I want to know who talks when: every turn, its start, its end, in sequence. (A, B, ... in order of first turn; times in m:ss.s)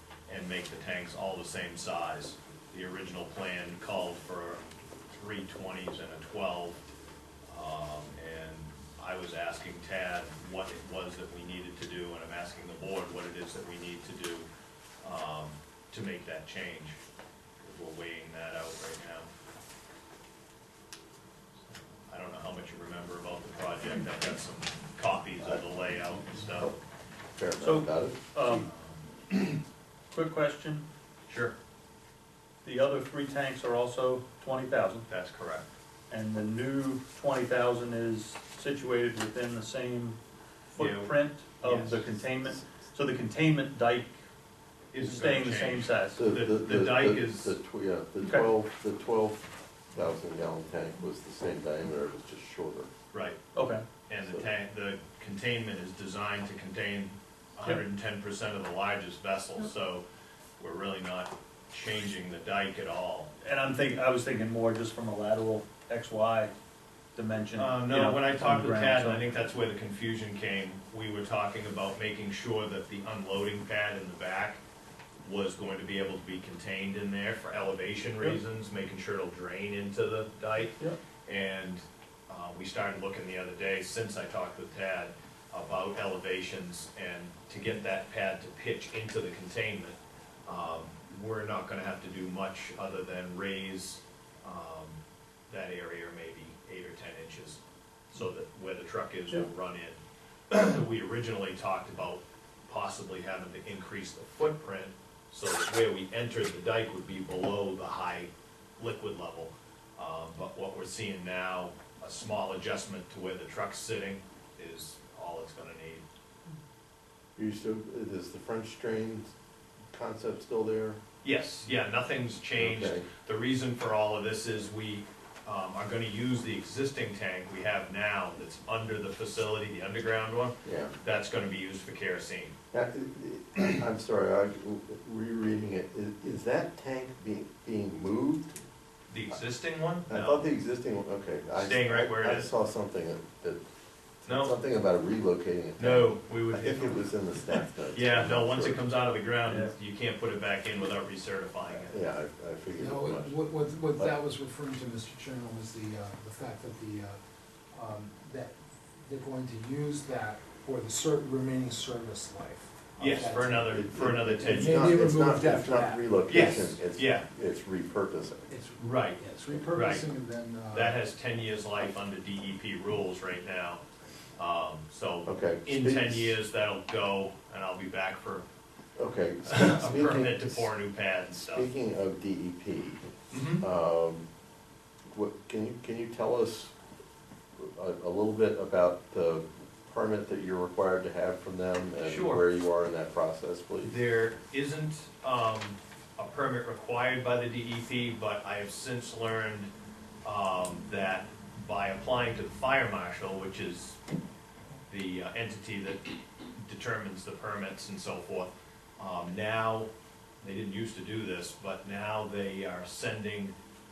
0:00.3-0:06.8 A
0:07.5-0:14.5 A
0:15.0-0:17.0 A
0:17.6-0:19.3 A
0:22.1-0:26.7 A
0:25.4-0:25.6 B
0:26.2-0:26.8 B
0:27.3-0:28.2 B
0:27.6-0:28.7 C
0:28.4-0:29.6 A
0:30.1-0:30.8 C
0:31.3-0:31.5 A
0:32.6-0:35.1 C
0:35.1-0:35.6 A
0:36.1-0:40.2 C
0:40.7-0:44.2 C
0:40.7-0:42.0 A
0:44.9-0:47.6 A
0:45.0-0:46.2 C
0:46.2-0:52.9 B
0:48.2-0:48.4 C
0:53.1-0:53.4 A
0:53.5-0:53.8 C
0:54.1-1:00.0 A
1:00.6-1:03.3 A
1:03.4-1:06.5 C
1:07.2-1:09.2 C
1:07.6-1:14.6 A
1:15.2-1:35.0 A
1:35.5-1:37.6 A
1:38.1-1:40.0 A
1:40.5-1:56.0 A
1:57.4-1:59.3 B
1:59.9-2:01.0 B
2:01.2-2:12.5 A
2:02.6-2:03.1 B
2:10.6-2:10.9 B
2:12.7-2:18.6 B
2:19.1-2:20.4 A
2:20.1-2:23.6 B
2:21.6-2:22.5 A
2:24.2-2:28.8 B
2:24.2-2:24.6 A
2:25.8-2:27.0 A
2:27.9-2:31.9 A
2:29.4-2:29.7 C
2:31.7-2:33.4 B
2:32.8-2:37.2 D
2:37.7-2:43.8 D
2:43.0-2:44.8 A
2:43.7-2:48.5 B
2:44.4-2:46.4 D
2:46.3-2:47.2 A
2:48.5-2:51.0 D
2:48.8-2:50.1 A
2:50.7-2:53.8 A
2:54.4-2:58.5 A
2:55.2-2:56.4 B
2:59.0-3:00.7 B
2:59.5-3:01.7 A
3:01.5-3:03.0 B
3:03.3-3:03.6 A
3:03.6-3:04.2 B
3:05.1-3:06.7 B
3:07.6-3:14.0 B
3:12.0-3:12.4 A
3:13.8-3:19.7 A
3:20.2-3:24.0 A
3:24.9-3:26.0 A
3:26.6-3:29.9 A
3:30.4-3:33.5 A